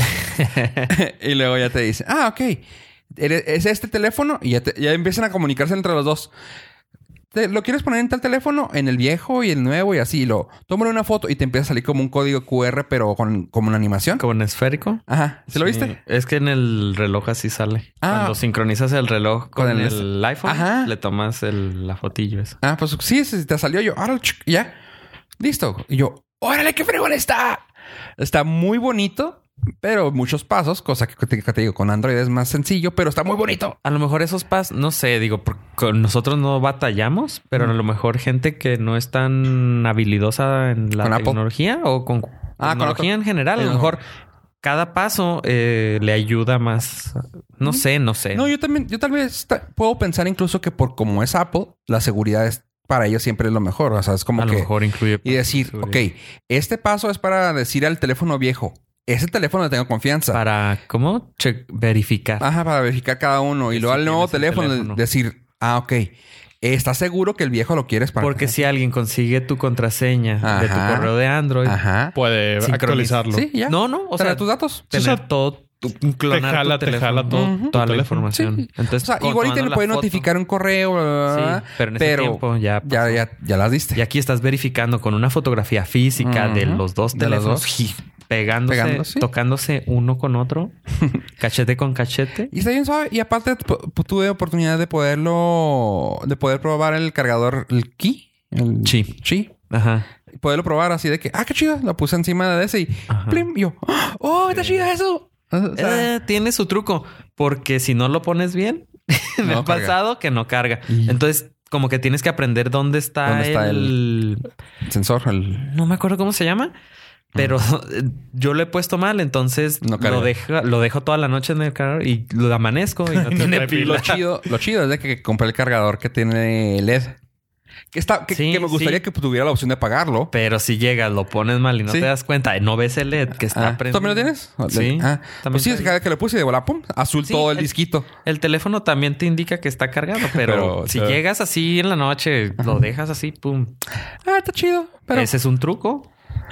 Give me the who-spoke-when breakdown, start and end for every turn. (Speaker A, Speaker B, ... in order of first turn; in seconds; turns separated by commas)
Speaker A: 0.4-0.9, Speaker B: 0.9-6.3, Speaker B: 7.3-14.2, Speaker A: 14.2-22.6, Speaker B: 15.1-15.9, Speaker B: 18.0-18.4, Speaker B: 19.6-20.9, Speaker B: 22.6-24.8, Speaker B: 25.4-27.6, Speaker B: 28.2-33.8, Speaker A: 33.8-44.0, Speaker B: 41.0-41.4, Speaker B: 42.6-44.0, Speaker A: 44.6-48.5, Speaker B: 47.7-54.7, Speaker A: 54.4-56.0, Speaker B: 55.2-60.4, Speaker A: 60.3-62.5, Speaker B: 62.4-68.5, Speaker A: 63.7-65.0, Speaker A: 68.2-71.8, Speaker B: 70.4-71.1, Speaker B: 71.7-72.1, Speaker C: 72.2-73.5, Speaker A: 72.6-80.3, Speaker B: 73.3-74.8, Speaker C: 74.9-75.3, Speaker C: 76.3-78.3, Speaker B: 77.3-77.8, Speaker B: 78.3-84.0, Speaker A: 81.3-83.2, Speaker A: 84.0-90.8, Speaker B: 86.2-87.8, Speaker B: 88.7-89.3, Speaker A: 91.4-92.5, Speaker B: 92.5-99.5, Speaker A: 98.8-100.1, Speaker B: 100.3-106.1, Speaker A: 103.1-103.5, Speaker A: 104.5-104.8, Speaker A: 105.8-114.5, Speaker B: 109.4-109.9, Speaker B: 110.9-111.2, Speaker B: 113.2-114.0, Speaker B: 114.9-115.7, Speaker A: 115.6-116.7, Speaker A: 117.3-124.2, Speaker B: 119.8-120.3, Speaker C: 123.1-124.2, Speaker B: 123.7-127.2, Speaker B: 127.9-130.3, Speaker A: 128.3-129.0, Speaker A: 130.3-135.9, Speaker B: 133.5-138.1, Speaker A: 137.2-137.7, Speaker A: 138.2-143.8, Speaker B: 140.3-141.2, Speaker B: 144.2-145.3, Speaker A: 145.1-146.1